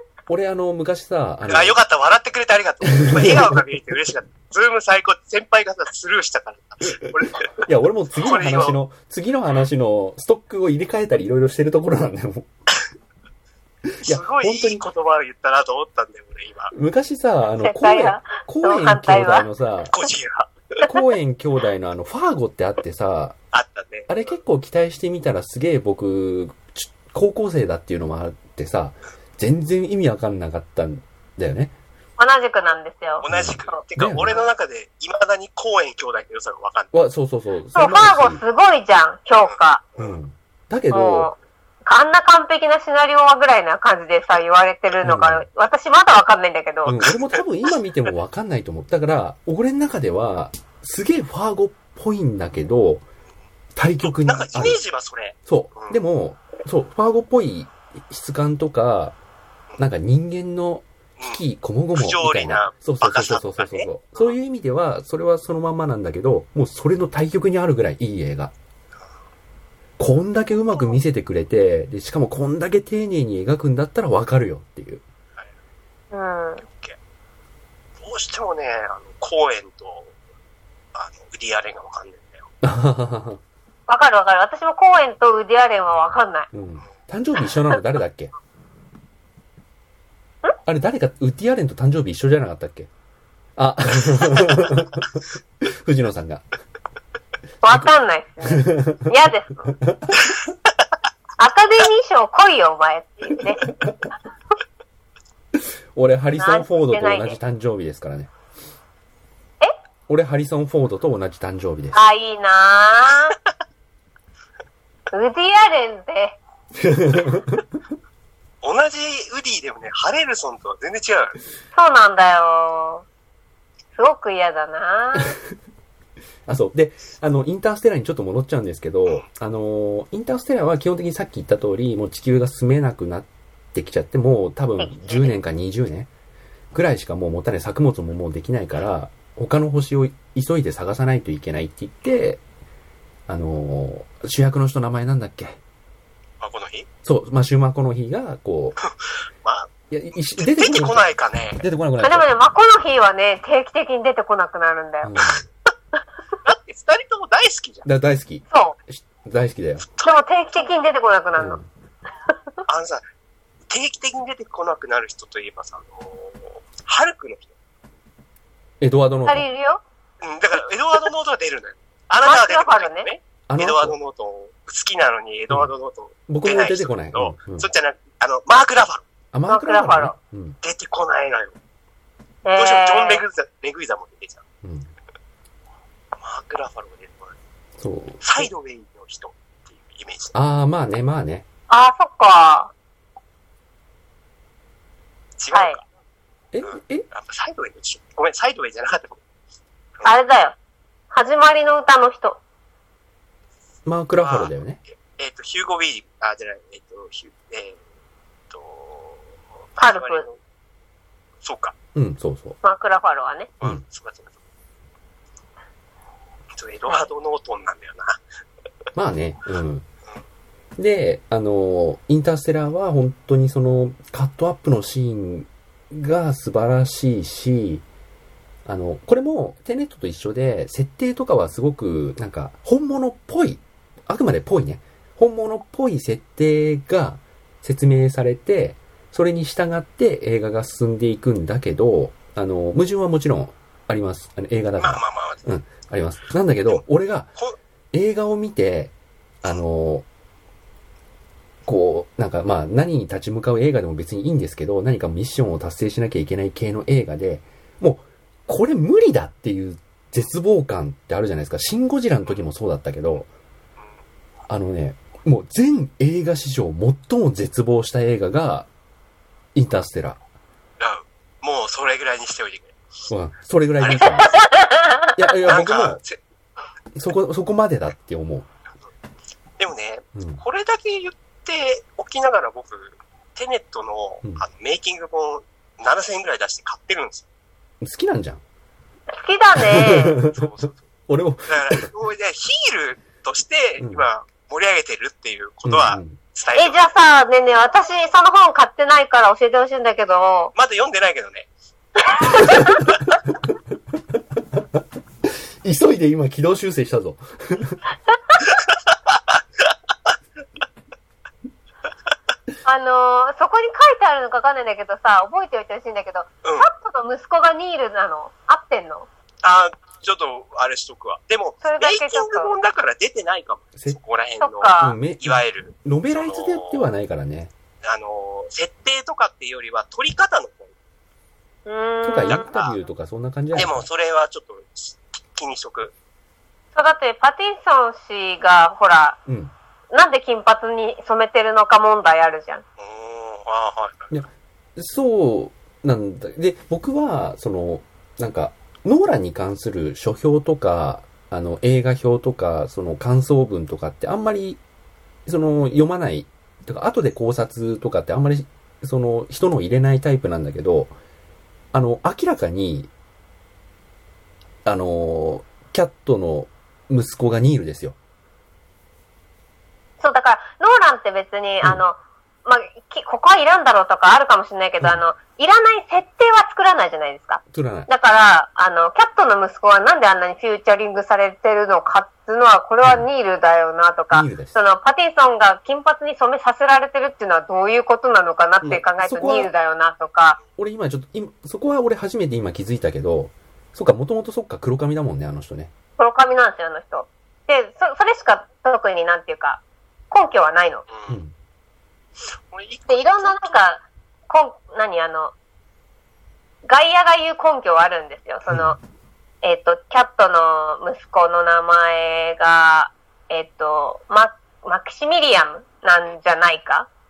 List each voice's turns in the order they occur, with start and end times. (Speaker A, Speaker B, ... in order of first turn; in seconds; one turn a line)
Speaker A: 0.3-1.8
Speaker B: 1.5-7.6
Speaker A: 2.8-3.6
Speaker A: 7.0-12.5
Speaker B: 8.2-8.8
Speaker A: 13.9-14.8
Speaker B: 14.0-16.7
Speaker A: 16.7-19.9
Speaker C: 17.6-19.5
Speaker B: 19.9-20.8
Speaker A: 20.8-23.4
Speaker B: 23.5-24.1
Speaker A: 24.1-31.7
Speaker C: 32.2-33.8
Speaker B: 33.2-36.9
Speaker A: 33.3-34.4
Speaker A: 36.9-38.4
Speaker C: 37.7-39.8
Speaker B: 39.4-40.2
Speaker A: 40.0-41.3
Speaker C: 40.9-47.0
Speaker A: 45.0-45.5
Speaker A: 46.9-53.0
Speaker B: 47.0-47.4
Speaker A: 53.8-54.8
Speaker B: 54.0-56.0
Speaker A: 55.5-59.1
Speaker A: 59.8-68.5
Speaker B: 61.2-61.4
Speaker B: 61.9-63.9
Speaker A: 70.0-75.0
Speaker C: 76.1-76.6
Speaker B: 76.7-77.0
Speaker B: 78.0-80.1
Speaker B: 80.9-82.5
Speaker A: 82.6-83.4
Speaker C: 83.9-86.5
Speaker A: 86.5-88.3
Speaker A: 90.7-92.9
Speaker A: 93.6-96.4
Speaker C: 97.6-99.7
Speaker A: 98.4-99.1
Speaker A: 99.7-100.3
Speaker C: 101.4-103.7
Speaker A: 105.5-108.3
Speaker C: 106.4-107.4
Speaker A: 110.1-112.0
Speaker C: 111.9-113.3
Speaker C: 115.1-116.4
Speaker A: 116.8-117.7
Speaker B: 118.6-121.4
Speaker C: 121.7-123.0
Speaker C: 124.0-125.3
Speaker A: 126.5-136.1
Speaker C: 134.8-135.3
Speaker A: 136.7-142.4
Speaker A: 143.3-145.6
Speaker B: 146.4-146.9
Speaker A: 147.0-148.8
Speaker B: 149.4-149.7
Speaker A: 149.9-151.1
Speaker B: 150.3-151.6
Speaker A: 151.6-152.3
Speaker C: 152.0-155.2
Speaker A: 155.0-155.4
Speaker B: 156.4-157.9
Speaker A: 157.8-159.9
Speaker C: 158.5-158.8
Speaker C: 160.0-161.6
Speaker A: 161.4-161.7
Speaker B: 162.7-163.0
Speaker B: 163.7-167.5
Speaker A: 168.8-169.5
Speaker C: 169.2-169.8
Speaker B: 170.2-179.0
Speaker C: 172.2-173.1
Speaker A: 173.5-173.9
Speaker A: 176.3-177.7
Speaker A: 179.3-180.6
Speaker C: 179.5-180.1
Speaker B: 180.6-181.6
Speaker C: 182.4-183.2
Speaker B: 182.6-184.4
Speaker A: 184.6-184.9
Speaker B: 186.2-187.3
Speaker A: 187.8-188.5
Speaker B: 188.2-190.3
Speaker A: 190.3-191.4
Speaker C: 191.7-192.7
Speaker B: 195.4-195.8
Speaker C: 195.5-195.8
Speaker A: 196.5-197.1
Speaker B: 196.6-199.2
Speaker C: 200.0-200.5
Speaker C: 201.1-202.4
Speaker A: 203.8-204.8
Speaker B: 204.2-204.5
Speaker B: 205.0-207.8
Speaker B: 208.5-210.4
Speaker C: 209.8-210.2
Speaker B: 211.4-211.7
Speaker A: 211.9-212.6
Speaker C: 212.6-213.5
Speaker B: 213.6-214.4
Speaker B: 216.5-218.2
Speaker A: 218.9-219.9
Speaker A: 220.8-227.8
Speaker A: 228.7-247.3
Speaker B: 244.8-245.4
Speaker A: 247.9-250.1
Speaker A: 251.7-263.3
Speaker A: 264.5-268.7
Speaker A: 269.5-270.2
Speaker B: 270.8-272.7
Speaker A: 273.1-274.4
Speaker B: 273.8-274.1
Speaker C: 274.2-275.1
Speaker A: 275.1-276.0
Speaker B: 275.4-276.2
Speaker A: 276.9-278.5
Speaker B: 279.6-287.2
Speaker A: 280.1-280.4
Speaker A: 287.8-288.4
Speaker C: 289.1-290.2
Speaker A: 289.6-290.5
Speaker B: 290.3-290.8
Speaker A: 291.1-291.9
Speaker B: 291.5-296.9
Speaker A: 293.8-294.1
Speaker A: 295.6-296.2
Speaker C: 296.5-300.5
Speaker B: 300.5-301.5
Speaker C: 302.1-302.8
Speaker A: 302.3-303.5
Speaker A: 304.2-307.8
Speaker B: 308.4-309.4
Speaker C: 312.6-319.1
Speaker B: 316.4-316.7
Speaker B: 319.4-326.9
Speaker C: 321.6-322.6
Speaker C: 324.4-325.0
Speaker A: 324.8-327.5
Speaker B: 327.8-330.7
Speaker C: 331.6-332.5
Speaker A: 332.0-333.9
Speaker B: 332.3-332.8
Speaker B: 333.5-335.9
Speaker C: 336.7-339.2
Speaker A: 339.2-339.5
Speaker C: 339.9-342.6
Speaker B: 342.8-344.1
Speaker A: 344.1-354.6
Speaker A: 355.2-360.9
Speaker A: 361.7-362.9
Speaker A: 364.6-368.0
Speaker C: 370.0-390.4
Speaker A: 377.5-377.9
Speaker A: 384.1-384.6
Speaker A: 388.6-389.5
Speaker A: 390.6-395.7
Speaker C: 396.0-400.8
Speaker B: 400.9-401.2
Speaker A: 401.1-401.3
Speaker B: 402.4-403.7
Speaker C: 402.9-405.3
Speaker C: 406.6-408.8
Speaker A: 408.5-408.8
Speaker C: 409.4-416.9